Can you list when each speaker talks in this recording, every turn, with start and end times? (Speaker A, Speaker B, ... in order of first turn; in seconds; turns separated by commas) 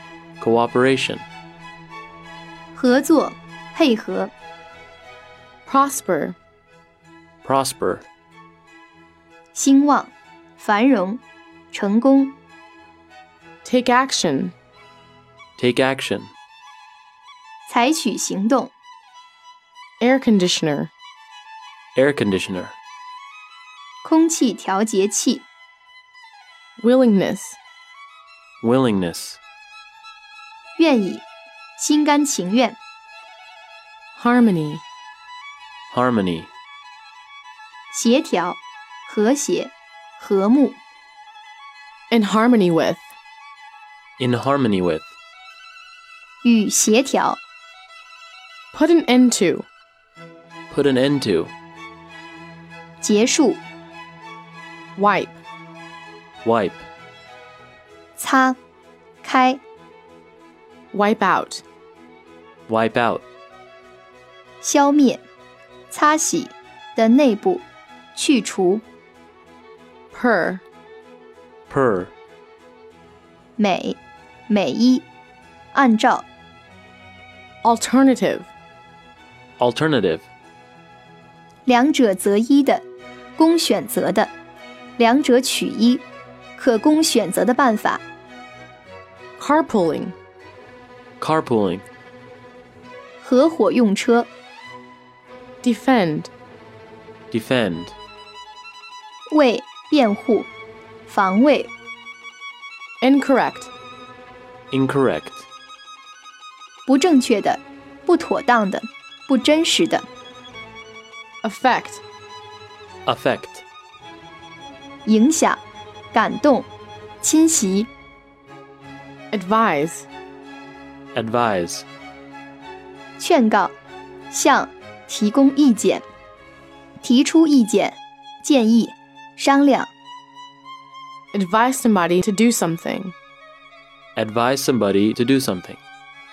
Speaker A: 0.4-1.2, Speaker B: 2.7-4.3, Speaker C: 5.7-6.4, Speaker A: 7.4-8.1, Speaker B: 9.5-12.4, Speaker C: 13.6-14.5, Speaker A: 15.6-16.3, Speaker B: 17.7-18.7, Speaker C: 20.0-20.9, Speaker A: 21.9-22.8, Speaker B: 24.0-25.4, Speaker C: 26.8-27.6, Speaker A: 28.6-29.4, Speaker B: 30.8-31.2, Speaker B: 31.8-32.8, Speaker C: 34.1-34.8, Speaker A: 35.9-36.5, Speaker B: 37.9-40.8, Speaker C: 42.1-43.1, Speaker A: 44.2-45.1, Speaker B: 46.4-47.4, Speaker C: 48.7-49.6, Speaker A: 50.7-51.5, Speaker B: 53.0-53.6, Speaker C: 55.0-55.4, Speaker A: 56.4-56.9, Speaker B: 58.2-58.6, Speaker B: 59.2-59.6, Speaker C: 60.9-61.6, Speaker A: 62.7-63.2, Speaker B: 64.6-65.2, Speaker B: 65.9-68.8, Speaker C: 70.1-70.6, Speaker A: 71.7-72.1, Speaker B: 73.6-75.1, Speaker B: 75.7-76.3, Speaker C: 77.6-78.5, Speaker A: 79.6-80.3, Speaker B: 81.7-82.8, Speaker B: 83.4-84.3, Speaker B: 85.0-88.0, Speaker C: 89.4-90.1, Speaker A: 91.2-91.8, Speaker B: 93.2-94.3, Speaker C: 95.6-96.3, Speaker A: 97.3-98.0, Speaker B: 99.3-100.5, Speaker B: 101.0-101.7, Speaker C: 103.0-103.7, Speaker A: 104.7-105.5, Speaker B: 106.8-110.1, Speaker C: 111.4-112.0, Speaker A: 113.0-113.6, Speaker B: 115.0-116.7, Speaker B: 117.2-117.9, Speaker C: 119.3-120.1, Speaker A: 121.1-121.9, Speaker B: 123.2-123.8, Speaker B: 124.3-126.0, Speaker B: 127.0-129.9, Speaker C: 131.3-133.1, Speaker A: 134.2-135.8